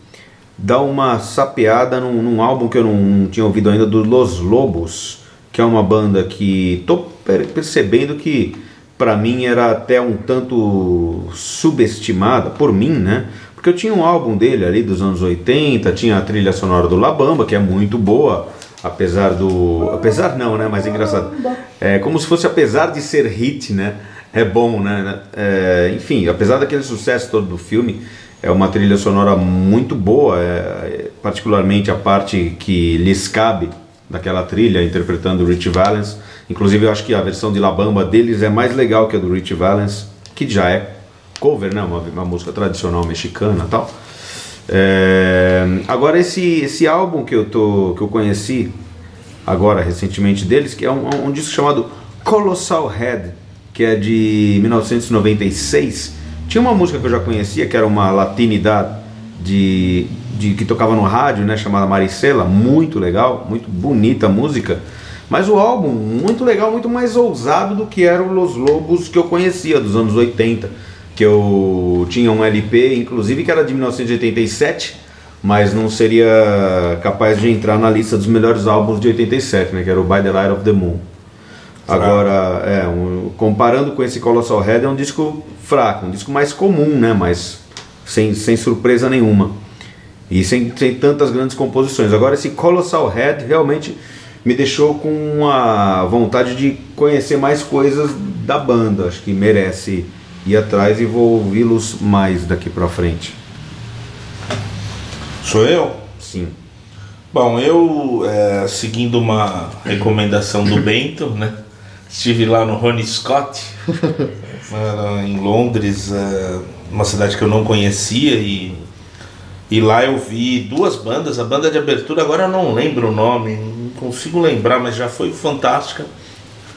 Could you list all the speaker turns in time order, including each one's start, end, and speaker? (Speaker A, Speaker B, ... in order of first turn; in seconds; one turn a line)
Speaker A: 0.6-43.9
Speaker A: 44.7-48.7
Speaker A: 49.5-81.0
Speaker A: 81.9-89.5
Speaker B: 81.9-82.2
Speaker A: 90.3-103.3
Speaker B: 105.4-106.1
Speaker A: 106.2-106.5
Speaker B: 107.3-111.5
Speaker B: 112.1-113.7
Speaker B: 114.7-118.8
Speaker B: 119.7-126.1